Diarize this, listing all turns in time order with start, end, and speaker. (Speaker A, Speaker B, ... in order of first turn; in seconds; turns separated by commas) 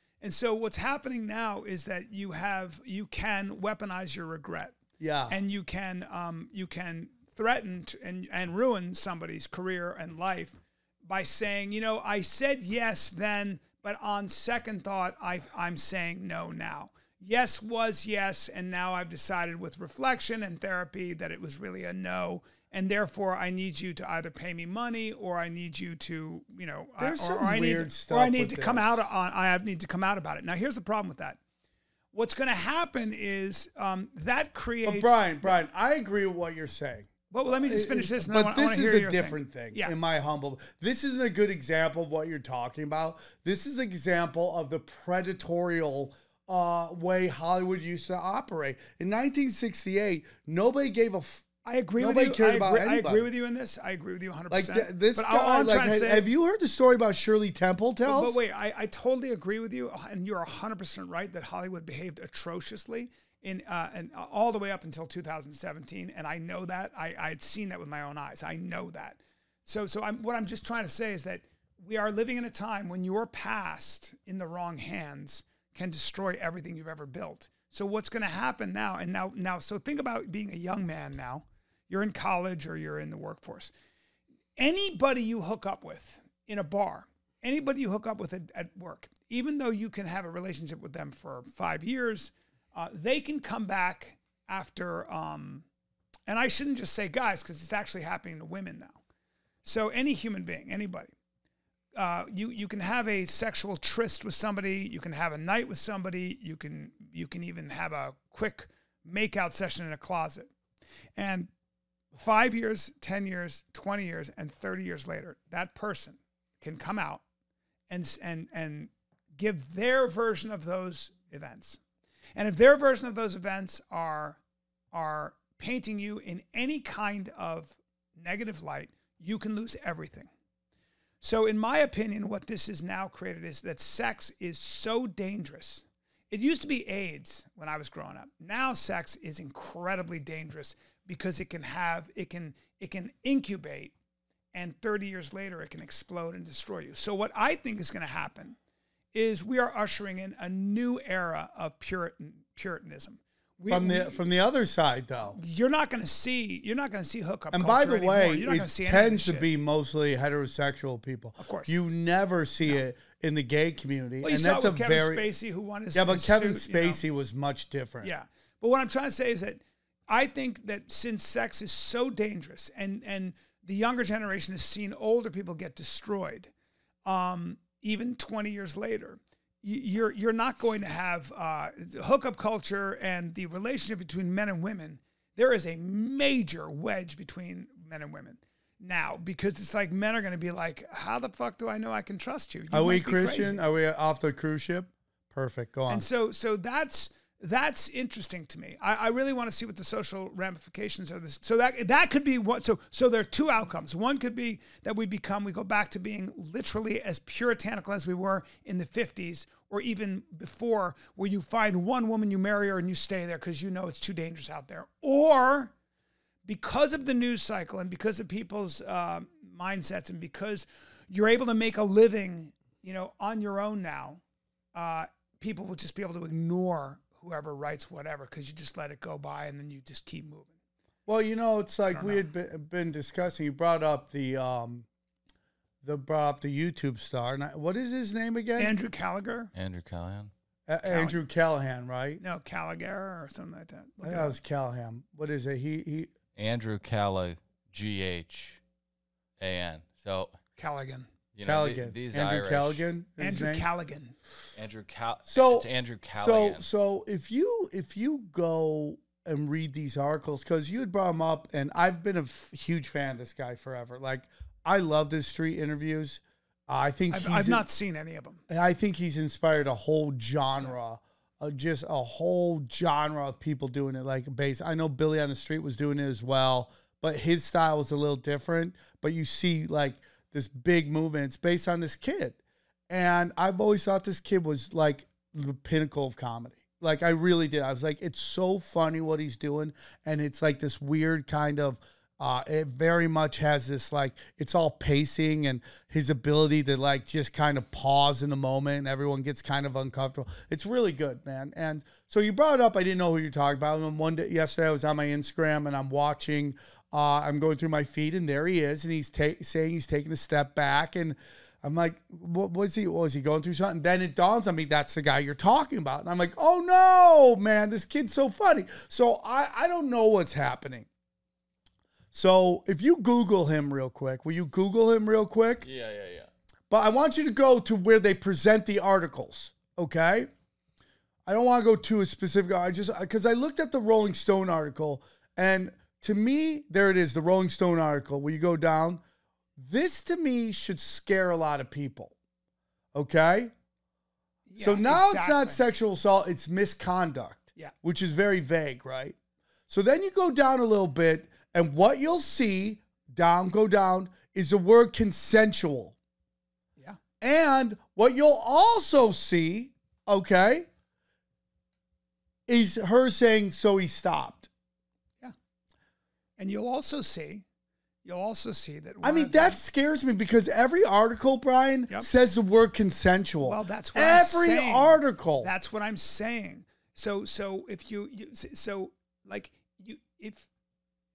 Speaker A: 0.2-4.8, Speaker B: 5.0-5.3, Speaker A: 5.3-31.4, Speaker B: 27.0-29.0, Speaker A: 32.1-35.5, Speaker B: 34.8-51.5, Speaker A: 37.3-39.9, Speaker A: 51.6-56.3, Speaker B: 52.0-53.3, Speaker B: 54.5-58.4, Speaker A: 58.0-83.7, Speaker A: 84.6-95.7, Speaker A: 96.3-99.0, Speaker A: 99.6-101.1, Speaker A: 101.9-110.5, Speaker A: 111.2-111.5, Speaker A: 112.1-117.2, Speaker A: 117.9-121.8, Speaker A: 122.3-124.4, Speaker A: 124.9-130.3, Speaker A: 131.2-143.9, Speaker A: 144.5-148.6, Speaker A: 149.1-154.2, Speaker B: 153.7-155.4, Speaker A: 155.2-159.5, Speaker B: 157.5-165.3, Speaker A: 161.4-161.7, Speaker A: 164.2-167.0, Speaker B: 165.9-168.1, Speaker A: 168.0-176.5, Speaker A: 177.1-193.6, Speaker B: 192.7-196.0, Speaker A: 195.9-215.7, Speaker A: 216.4-224.2, Speaker A: 224.7-230.5, Speaker B: 231.1-234.8, Speaker A: 231.9-232.2, Speaker B: 235.8-238.7, Speaker A: 238.6-239.5, Speaker C: 239.5-240.3, Speaker B: 240.7-242.2, Speaker A: 240.8-241.2, Speaker A: 242.2-244.3, Speaker B: 244.0-246.1, Speaker C: 246.3-248.6, Speaker C: 249.4-250.3, Speaker A: 250.6-251.1, Speaker C: 251.3-252.8, Speaker B: 251.4-253.7, Speaker A: 253.2-254.1, Speaker C: 254.5-256.6, Speaker B: 255.2-267.6, Speaker A: 267.1-268.4, Speaker B: 268.5-282.4, Speaker B: 282.9-320.9, Speaker B: 322.1-325.6, Speaker C: 325.6-326.3, Speaker B: 326.7-330.3, Speaker B: 331.3-339.0, Speaker B: 339.6-342.1, Speaker B: 342.9-343.5, Speaker A: 344.5-345.6, Speaker B: 344.6-349.1, Speaker B: 349.7-355.9, Speaker B: 357.2-360.7, Speaker B: 362.5-364.5, Speaker A: 366.4-367.4, Speaker A: 368.0-369.6, Speaker B: 369.0-375.5, Speaker A: 373.4-380.4